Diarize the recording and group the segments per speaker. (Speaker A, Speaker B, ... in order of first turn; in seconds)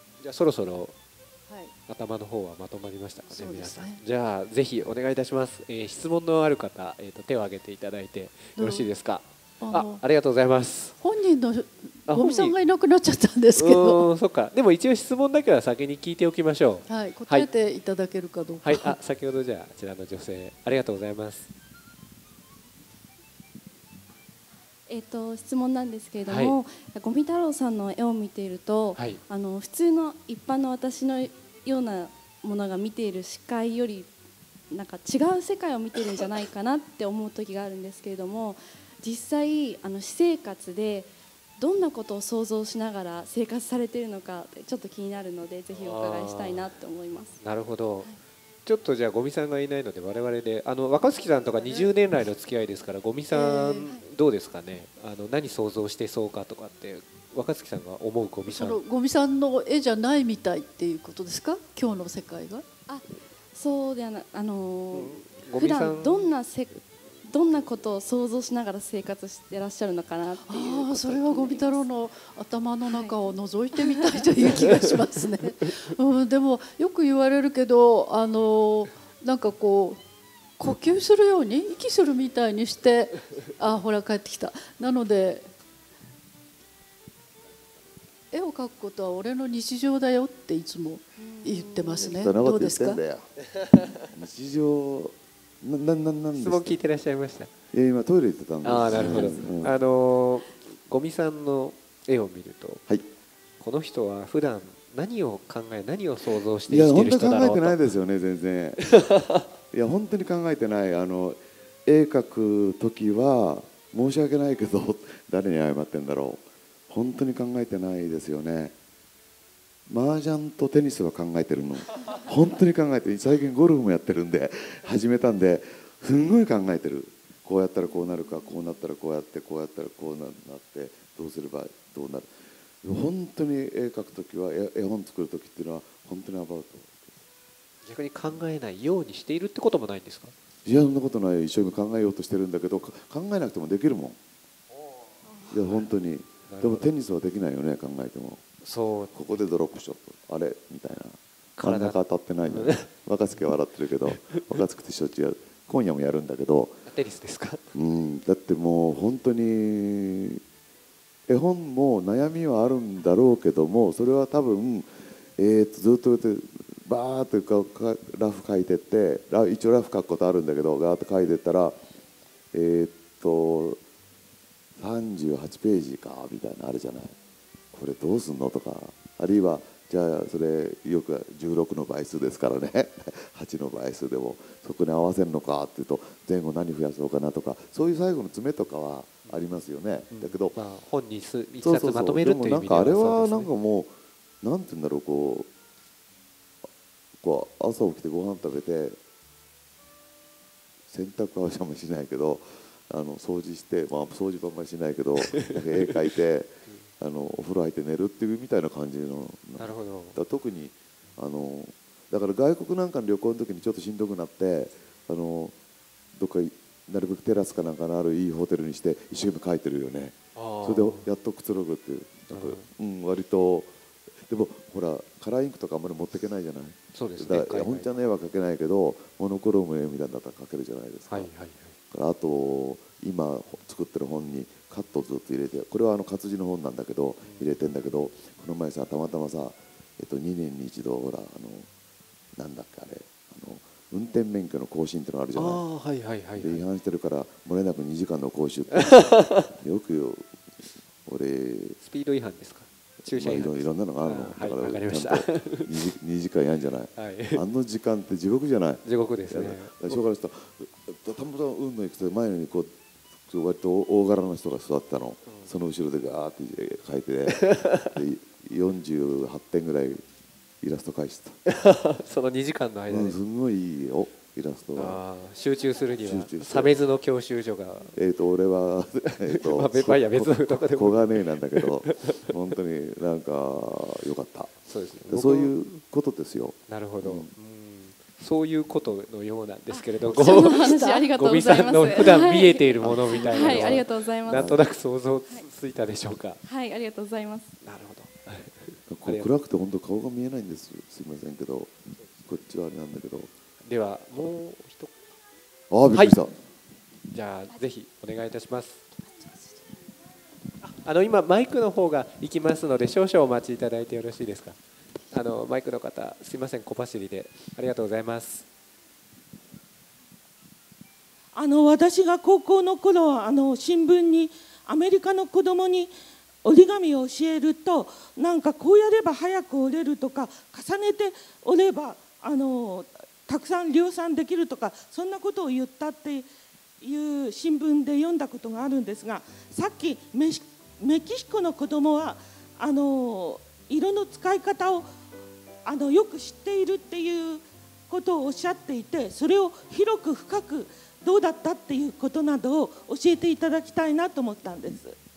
Speaker A: 0.2-0.9, 1.9-10.9, 12.1-12.6, 13.5-17.5, 18.6-21.5, 26.2-26.6, 28.9-29.2, 45.7-46.7, 47.4-48.1, 48.6-58.8, 64.9-66.3, 96.3-97.5, 98.6-102.8, 103.6-107.8, 137.8-140.3, 146.5-146.9, 148.6-149.4, 151.6-152.9, 154.1-154.6, 156.9-157.6, 189.2-189.5, 190.1-193.5, 209.6-210.2, 220.3-221.0, 222.3-222.6, 226.9-227.9, 231.1-231.7, 237.2-237.6, 245.3-246.6, 248.7-249.5, 251.8-255.7, 256.9-257.4, 258.8-260.0, 267.3-267.9, 271.4-273.2, 274.8-277.9, 279.1-282.3, 284.7-285.6, 286.7-290.6, 291.1-296.4, 297.6-299.3, 303.6-304.9, 307.1-308.9, 310.6-314.6, 315.1-318.4
Speaker B: 1.5-1.7, 3.3-4.0, 8.6-8.9, 9.6-10.0, 11.0-14.1, 16.9-19.0, 53.3-53.9, 58.5-62.6, 70.4-80.0, 80.6-85.5, 88.3-93.0, 290.1-291.1
Speaker C: 24.9-34.1, 34.7-47.4, 62.9-71.9, 72.8-73.3, 73.8-74.1, 91.2-92.2, 289.7-294.6, 296.4-297.6
Speaker D: 92.0-93.2, 94.0-96.8, 97.7-99.7, 106.7-109.0, 109.7-118.7, 119.9-132.3, 132.8-137.1, 140.6-144.2, 145.5-148.4, 149.1-156.8, 157.7-160.4, 161.3-171.8, 172.5-173.8, 174.8-177.1, 177.7-190.6, 191.6-195.5, 197.2-199.0, 200.9-215.5, 216.1-223.7, 224.2-231.3, 231.9-241.7, 242.3-245.6, 246.4-250.3, 251.0-251.8, 253.1-262.7, 263.3-270.0, 270.6-271.4, 272.9-275.0, 276.0-276.8, 277.9-287.3, 292.8-294.6, 298.9-301.7, 302.3-303.3, 305.7-306.3
Speaker E: 321.3-325.9, 326.4-336.3, 336.8-344.8, 345.6-354.9